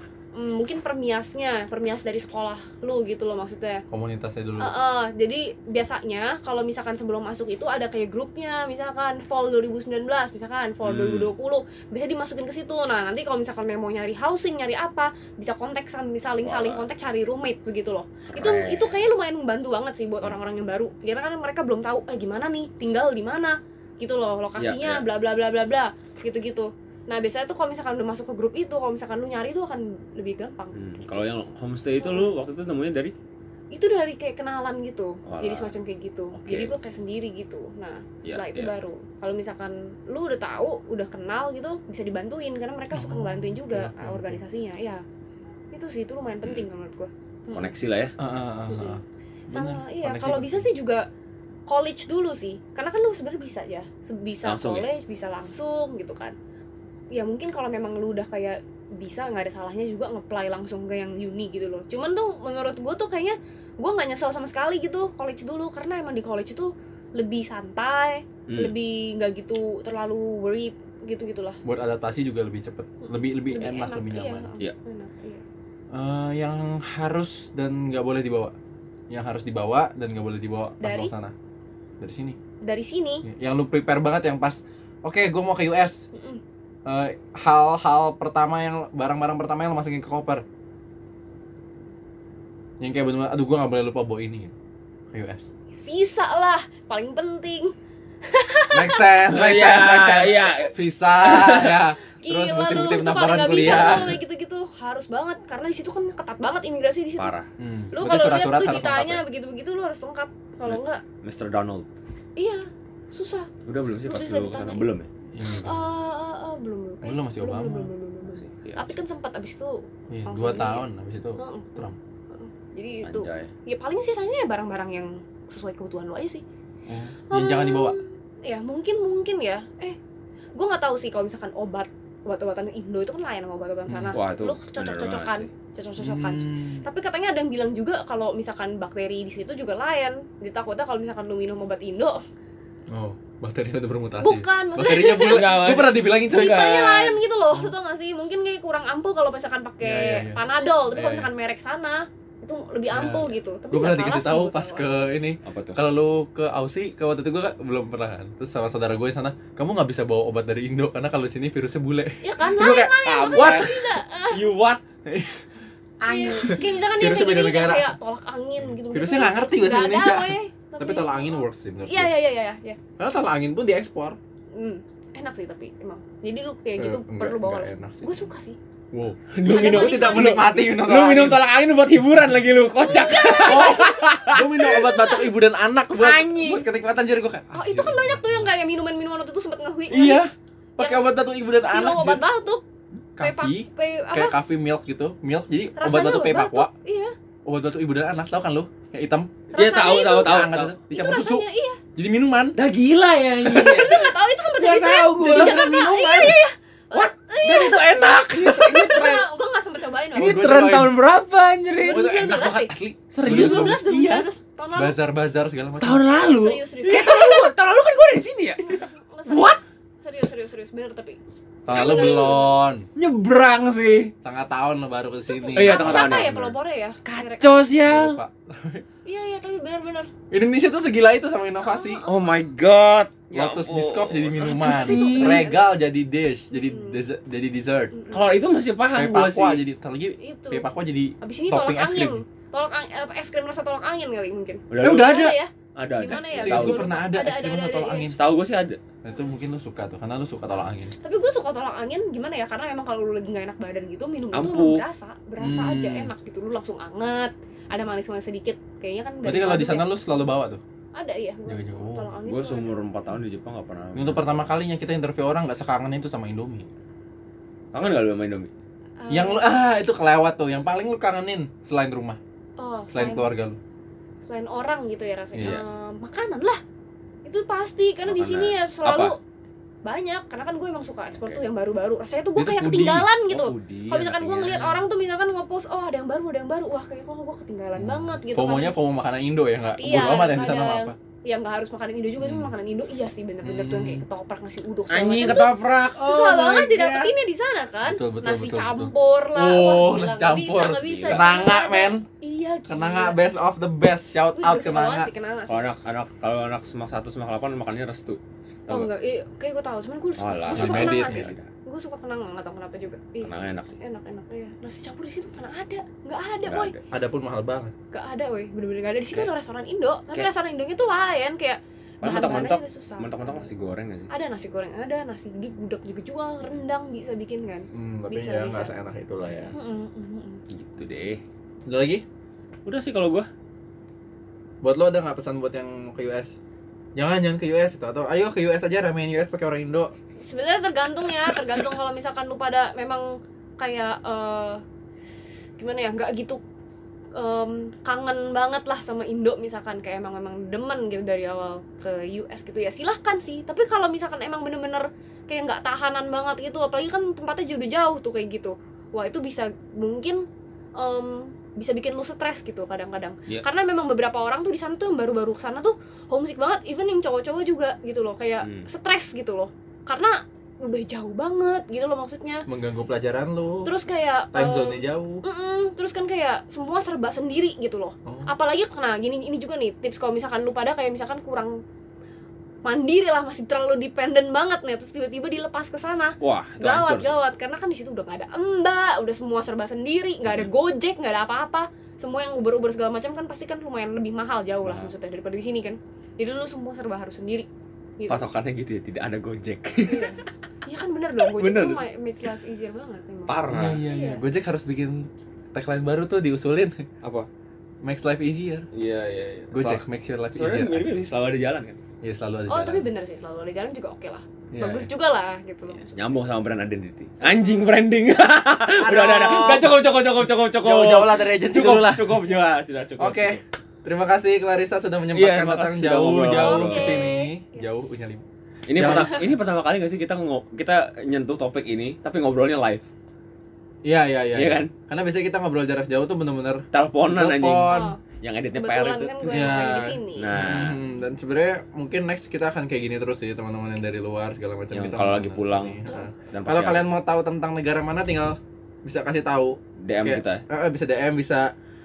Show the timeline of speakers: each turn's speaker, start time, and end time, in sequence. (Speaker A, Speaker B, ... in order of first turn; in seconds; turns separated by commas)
Speaker A: 0.3-3.8, Speaker B: 3.9-4.8, Speaker A: 4.6-30.7, Speaker C: 10.8-11.3, Speaker C: 16.4-16.9, Speaker C: 18.3-19.0, Speaker C: 24.6-25.0, Speaker C: 30.8-33.1, Speaker A: 32.0-32.3, Speaker A: 33.7-45.0, Speaker C: 35.3-35.7, Speaker C: 36.3-36.7, Speaker C: 38.2-38.7, Speaker B: 42.9-44.4, Speaker A: 45.7-47.7, Speaker C: 47.5-48.1, Speaker B: 48.2-50.7, Speaker A: 48.7-51.1, Speaker A: 51.7-56.4, Speaker C: 54.4-54.9, Speaker A: 57.1-71.6, Speaker C: 68.5-68.7, Speaker B: 71.6-74.5, Speaker A: 73.0-75.4, Speaker B: 75.9-78.5, Speaker B: 79.1-81.3, Speaker A: 80.8-81.1, Speaker B: 82.0-82.4, Speaker A: 82.6-83.2, Speaker B: 83.2-86.1, Speaker A: 86.1-86.4, Speaker B: 86.9-90.4, Speaker B: 92.8-94.5, Speaker B: 95.1-95.5, Speaker A: 95.8-97.7, Speaker A: 98.2-99.2, Speaker B: 98.7-104.2, Speaker C: 99.3-101.9, Speaker A: 102.2-107.3, Speaker C: 107.2-107.5, Speaker B: 107.6-109.2, Speaker A: 107.9-111.0, Speaker C: 110.7-111.9, Speaker A: 112.4-113.5, Speaker C: 113.7-115.1, Speaker A: 114.1-114.9, Speaker B: 115.3-115.9, Speaker A: 115.6-120.9, Speaker B: 117.0-117.9, Speaker C: 118.3-119.0, Speaker B: 120.1-122.0, Speaker A: 121.4-126.4, Speaker C: 123.0-123.5, Speaker B: 126.9-128.0, Speaker A: 127.3-130.0, Speaker A: 130.6-142.2, Speaker B: 133.9-134.2, Speaker C: 134.0-135.5, Speaker B: 136.0-136.8, Speaker B: 142.9-146.6, Speaker A: 144.2-155.0, Speaker C: 145.2-147.2, Speaker B: 149.8-151.3, Speaker B: 152.9-163.8, Speaker C: 155.4-155.8, Speaker A: 162.2-164.5, Speaker C: 162.9-164.8, Speaker B: 165.1-165.5, Speaker A: 166.1-172.8, Speaker B: 166.1-167.9, Speaker B: 168.7-172.1, Speaker B: 173.0-174.2, Speaker A: 174.6-178.6, Speaker B: 176.8-178.2, Speaker B: 178.9-181.4, Speaker C: 179.3-184.8, Speaker A: 179.5-180.5, Speaker A: 182.8-184.0, Speaker B: 183.4-188.5, Speaker A: 184.6-185.3, Speaker A: 186.0-186.6, Speaker A: 187.5-192.6, Speaker B: 189.9-192.2, Speaker B: 193.2-196.7, Speaker A: 193.2-194.3, Speaker A: 195.8-197.1, Speaker B: 197.5-199.4, Speaker A: 199.5-201.8, Speaker C: 199.6-200.8, Speaker B: 200.1-201.4, Speaker B: 202.0-202.6, Speaker C: 202.6-206.3, Speaker A: 203.5-210.5, Speaker B: 205.2-206.3, Speaker C: 206.9-209.2, Speaker B: 207.4-209.0, Speaker B: 210.1-211.0, Speaker C: 210.2-212.1, Speaker A: 211.8-212.7, Speaker B: 211.9-216.2, Speaker C: 213.1-213.8, Speaker A: 213.2-215.0, Speaker C: 215.8-219.6, Speaker A: 216.2-217.5, Speaker A: 218.6-221.2, Speaker B: 221.7-222.9, Speaker A: 221.7-222.6, Speaker C: 223.0-224.1, Speaker B: 224.2-226.3, Speaker A: 225.3-227.7, Speaker C: 225.5-228.2, Speaker B: 227.8-228.8, Speaker A: 229.1-230.1, Speaker B: 230.3-232.0, Speaker A: 231.6-232.3, Speaker C: 232.1-235.5, Speaker B: 233.3-237.9, Speaker A: 234.6-235.7, Speaker A: 236.5-237.0, Speaker A: 237.9-238.2, Speaker C: 238.1-239.6, Speaker B: 238.9-242.2, Speaker A: 240.2-240.7, Speaker A: 241.2-248.1, Speaker C: 244.7-246.9, Speaker B: 244.8-245.3, Speaker B: 246.3-248.2, Speaker C: 248.1-248.8, Speaker B: 249.0-250.9, Speaker A: 251.0-260.1, Speaker C: 254.3-254.8, Speaker B: 255.4-256.1, Speaker B: 259.2-260.6, Speaker A: 260.9-262.8, Speaker B: 261.5-262.1, Speaker C: 262.3-264.5, Speaker B: 263.9-266.7, Speaker C: 267.7-268.5, Speaker A: 269.0-269.6, Speaker B: 269.1-272.2, Speaker A: 272.6-273.3, Speaker B: 272.9-273.6, Speaker A: 274.2-276.6, Speaker B: 275.4-275.6, Speaker A: 277.2-279.2, Speaker C: 278.1-279.1, Speaker A: 279.9-288.7, Speaker B: 282.4-283.1, Speaker C: 283.3-284.7, Speaker B: 284.5-284.8, Speaker B: 287.8-291.0, Speaker A: 289.8-303.2, Speaker B: 292.2-292.5, Speaker B: 293.4-294.1, Speaker C: 294.9-297.1, Speaker B: 297.8-302.1, Speaker C: 300.7-301.4, Speaker B: 302.7-305.1, Speaker A: 304.4-305.7, Speaker C: 305.5-308.9, Speaker A: 308.7-316.7, Speaker C: 310.2-311.5, Speaker B: 310.5-311.3, Speaker C: 313.2-313.8, Speaker C: 316.5-316.8, Speaker B: 316.9-317.7, Speaker A: 317.9-323.5, Speaker C: 322.0-324.1, Speaker A: 324.1-328.7, Speaker B: 327.7-329.5, Speaker A: 329.5-330.4, Speaker C: 330.5-331.2, Speaker B: 331.7-332.0, Speaker C: 332.6-333.3, Speaker B: 334.6-336.4, Speaker B: 337.0-339.9, Speaker A: 340.2-344.6, Speaker A: 345.6-346.4, Speaker A: 347.1-360.3, Speaker A: 360.8-372.5, Speaker C: 368.4-368.7, Speaker B: 372.5-373.7, Speaker A: 373.6-381.6, Speaker B: 374.3-375.2, Speaker B: 378.1-378.3, Speaker A: 382.6-397.5, Speaker C: 386.2-387.2, Speaker C: 394.6-394.9, Speaker A: 398.0-398.3, Speaker C: 398.1-400.1, Speaker A: 399.9-404.2, Speaker C: 401.3-401.9, Speaker C: 403.3-403.8, Speaker B: 403.5-406.9, Speaker C: 407.0-407.3, Speaker B: 407.8-408.7, Speaker C: 408.7-411.8, Speaker B: 409.5-411.0, Speaker B: 412.0-412.9, Speaker A: 412.5-416.0, Speaker B: 414.5-414.9, Speaker C: 415.7-423.4, Speaker A: 417.2-417.6, Speaker B: 418.8-419.8, Speaker B: 420.5-422.3, Speaker B: 423.0-428.2, Speaker C: 425.1-427.1, Speaker A: 426.3-427.9, Speaker C: 428.7-432.9, Speaker B: 428.8-429.3, Speaker B: 433.8-437.9, Speaker C: 434.3-434.7, Speaker C: 436.7-440.8, Speaker A: 437.7-438.0, Speaker A: 438.6-440.6, Speaker B: 439.3-451.5, Speaker C: 444.7-446.9, Speaker A: 445.9-446.1, Speaker C: 449.8-450.4